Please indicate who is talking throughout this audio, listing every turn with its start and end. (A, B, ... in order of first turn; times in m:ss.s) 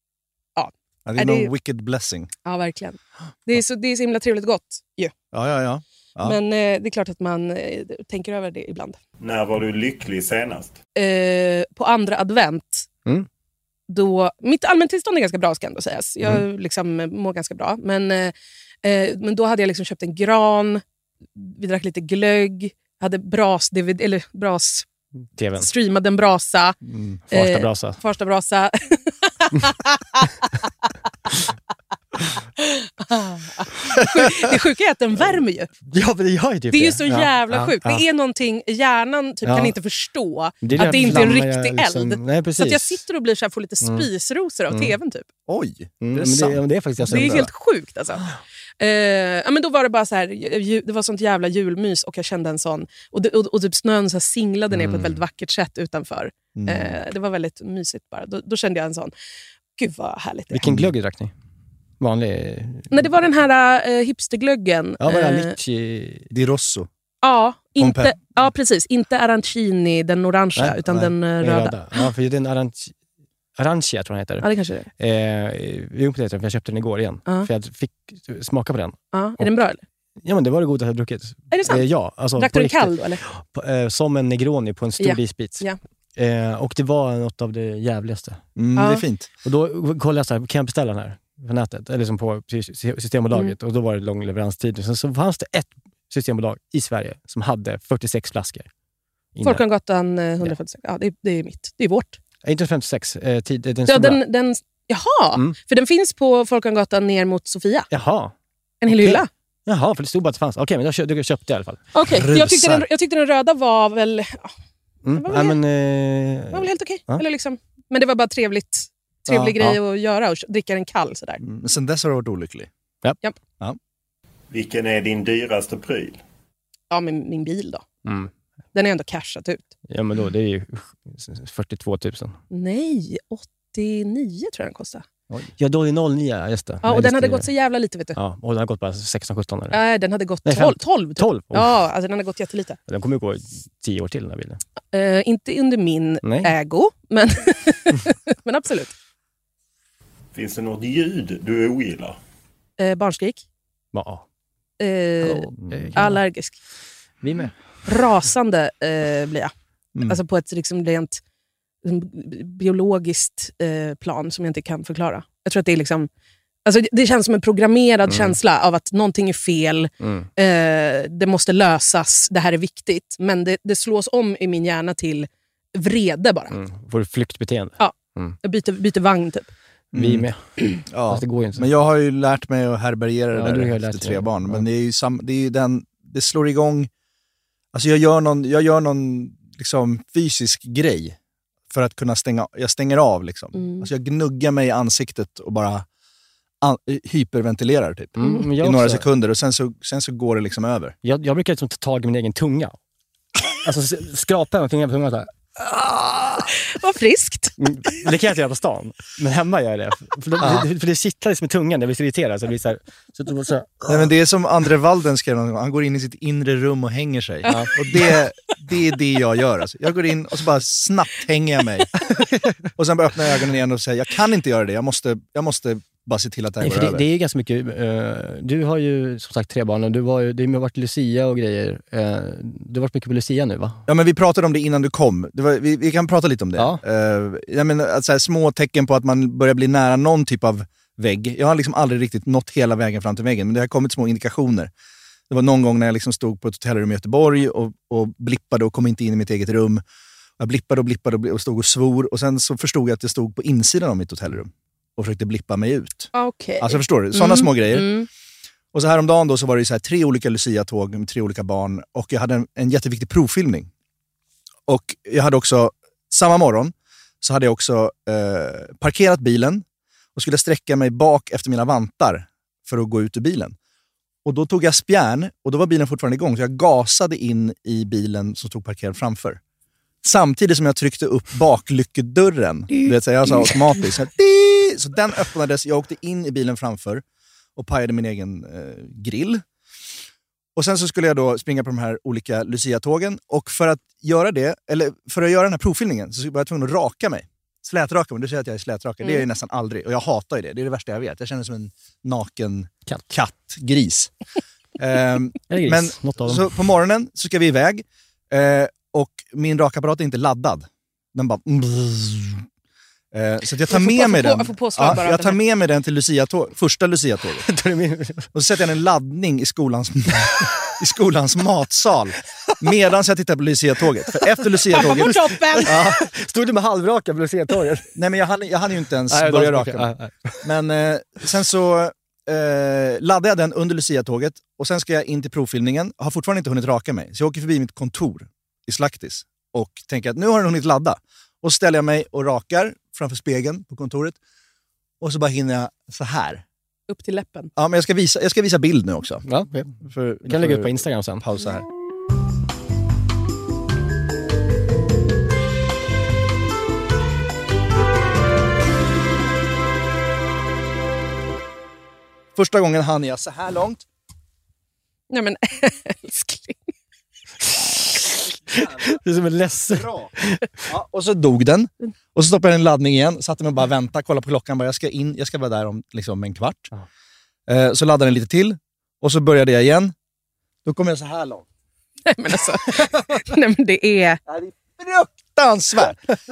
0:00.6-0:01.5 A
0:01.1-0:02.3 B
0:02.4-0:05.1 A
0:05.3-0:06.4 B
0:06.2-0:09.0 A
0:09.2-0:10.8 C
0:11.0-0:12.9 A
0:13.9-0:20.8 A
0:21.4-0:24.9 A
0:25.4-0:25.7 D
0:25.6-0:26.8 A
0:26.9-0:27.2 B
0:27.3-0:28.0 D
0:27.3-0:30.4 A
0:32.6-0:35.7 A
0:35.9-0:38.0 D
0:36.7-0:45.3 A
0:39.4-0:39.7 D
0:40.6-0:43.0 D
0:40.8-0:41.2 B
0:43.8-0:44.1 D
0:44.7-0:45.0 D
0:45.5-0:47.5 B
0:46.0-0:47.5 D
0:47.1-0:48.2 A
0:48.8-0:59.1 A
0:54.7-0:55.2 D
0:56.6-0:57.0 B
0:59.8-1:00.6 A
1:00.5-1:01.3 D
1:00.6-1:00.9 B
1:02.0-1:03.1 D
1:02.9-1:05.5 A
1:05.0-1:06.3 D
1:06.3-1:06.9 B
1:07.2-1:12.1 A
1:07.8-1:08.2 B
1:10.6-1:12.9 D
1:13.6-1:14.5 D
1:14.4-1:14.9 A
1:15.0-1:19.5 D
1:19.1-1:19.8 A
1:20.2-1:25.6 D
1:21.5-1:21.8 A
1:22.4-1:23.2 A
1:25.0-1:25.8 A
1:26.2-1:28.4 D
1:28.6-1:29.3 B
1:28.8-1:29.0 A
1:29.4-1:38.7 D
1:39.4-1:39.6 D
1:39.4-1:42.2 A
1:42.4-1:44.2 D
1:43.9-1:47.9 A
1:47.9-1:48.3 D
1:48.8-1:49.3 A
1:48.9-1:51.9 D
1:51.9-1:54.5 A
1:52.1-1:52.8 B
1:55.0-1:57.2 D
1:55.2-1:55.6 A
1:56.5-2:01.4 A
1:59.3-1:59.5 B
2:01.4-2:02.7 B
2:04.5-2:06.2 C
2:06.9-2:07.8 A
2:08.0-2:08.3 D
2:08.7-2:09.7 A
2:09.9-2:12.4 D
2:12.5-2:15.0 A
2:15.3-2:17.5 D
2:16.8-2:18.2 A
2:18.2-2:19.8 D
2:19.7-2:22.8 A
2:20.4-2:21.8 D
2:22.9-2:24.6 D
2:24.9-2:28.9 A
2:26.2-2:26.5 D
2:30.3-2:32.2 C
2:32.8-2:33.4 A
2:33.9-2:34.2 D
2:34.8-2:36.6 A
2:35.2-2:36.2 D
2:37.2-2:37.5 D
2:37.9-2:39.5 A
2:39.9-2:40.2 B
2:40.0-2:41.2 A
2:41.8-2:46.1 A
2:46.6-2:56.6 A
2:48.1-2:48.4 D
2:50.0-2:50.3 D
2:56.5-2:58.4 D
2:57.8-2:59.5 A
2:59.9-3:00.3 B
2:59.9-3:01.7 D
3:00.9-3:06.9 B
3:03.4-3:04.6 D
3:07.7-3:11.2 B
3:11.7-3:15.9 B
3:13.6-3:13.9 A
3:16.6-3:21.0 B
3:18.2-3:19.1 D
3:21.0-3:22.8 D
3:23.6-3:26.5 D
3:26.6-3:28.0 A
3:27.6-3:34.0 D
3:30.4-3:30.7 B
3:33.9-3:42.0 B
3:37.4-3:37.8 A
3:37.5-3:37.7 D
3:42.8-3:47.0 B
3:46.6-3:53.8 D
3:53.9-4:04.7 B
4:05.3-4:09.8 B
4:10.4-4:17.9 B
4:16.1-4:18.1 A
4:18.7-4:23.7 B
4:24.7-4:29.6 B
4:30.2-4:33.6 B
4:34.2-4:39.4 B
4:40.0-4:47.0 B
4:47.6-4:49.4 B
4:50.6-5:04.1 B
5:04.8-5:12.4 B
5:05.5-5:06.5 D
5:13.1-5:17.5 B
5:13.7-5:15.4 A
5:17.4-5:18.3 D
5:18.3-5:26.0 B
5:24.2-5:27.9 D
5:24.7-5:25.8 A
5:28.0-5:44.2 B
5:29.1-5:30.5 D
5:45.0-5:46.4 B
5:46.9-5:47.5 A
5:47.6-5:49.2 B
5:49.3-5:51.2 D
5:49.8-5:51.7 B
6:02.4-6:03.8 B
6:05.1-6:06.6 A
6:07.6-6:10.6 D
6:08.5-6:08.9 B
6:09.7-6:10.1 B
6:10.7-6:16.7 B
6:17.5-6:19.9 B
6:20.6-6:21.4 B
6:22.1-6:24.2 A
6:24.3-6:26.0 B